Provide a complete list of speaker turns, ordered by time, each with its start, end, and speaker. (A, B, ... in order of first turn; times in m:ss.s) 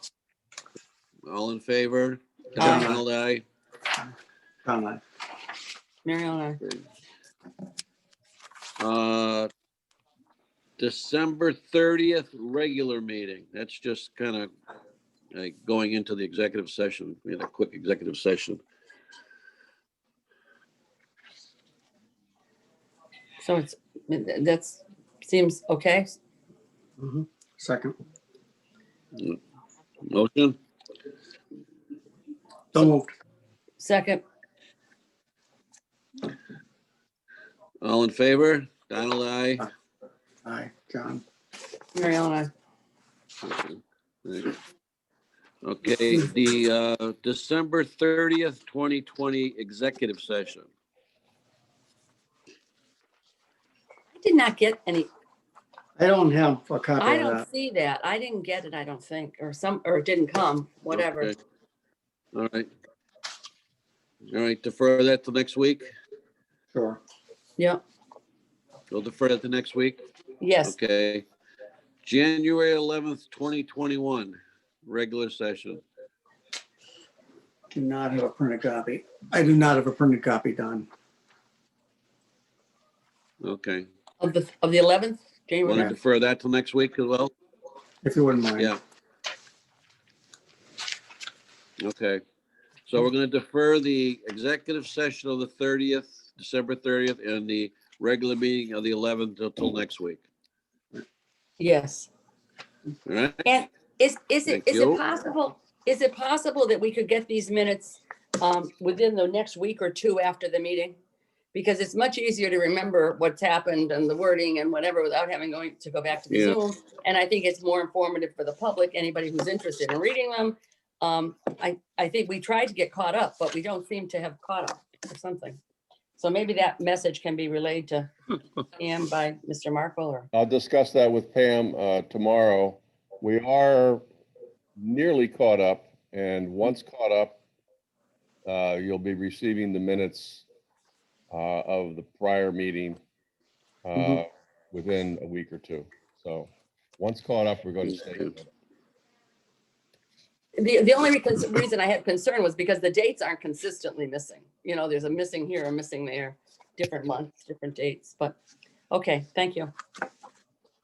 0:01.2-0:03.4 A
0:02.6-0:03.0 B
0:02.6-0:02.9 C
0:04.6-0:05.0 B
0:06.0-0:06.6 C
0:08.8-0:09.5 A
0:10.8-0:14.5 A
0:15.3-0:18.6 A
0:23.4-0:26.1 C
0:27.0-0:28.0 B
0:30.0-0:30.6 A
0:32.7-0:33.1 B
0:33.8-0:34.2 C
0:37.8-0:39.7 A
0:40.4-0:41.2 B
0:41.9-0:42.5 C
0:43.4-0:44.6 A
0:45.6-0:50.7 A
0:54.1-0:55.1 C
0:56.0-0:57.4 B
0:57.0-1:01.3 C
1:00.9-1:01.4 A
1:02.3-1:02.7 A
1:04.3-1:05.9 A
1:06.7-1:07.0 B
1:08.9-1:10.0 A
1:10.4-1:10.8 C
1:10.6-1:11.2 A
1:12.0-1:15.8 A
1:17.7-1:20.9 B
1:23.4-1:23.9 A
1:24.2-1:25.9 C
1:25.6-1:27.3 A
1:28.0-1:28.7 B
1:31.8-1:32.2 A
1:32.9-1:40.2 A
1:41.6-1:42.1 C
1:43.0-1:43.4 A
1:43.4-1:51.0 C
1:44.5-1:45.0 A
1:51.5-2:05.6 C
1:56.3-1:56.6 A
2:06.2-2:08.1 C
2:08.8-2:10.3 C
2:10.3-2:14.0 D
2:14.8-2:17.4 D
2:18.4-2:20.4 D
2:21.3-2:23.0 D
2:23.8-2:28.5 D
2:30.6-2:38.4 C
2:38.9-2:39.7 C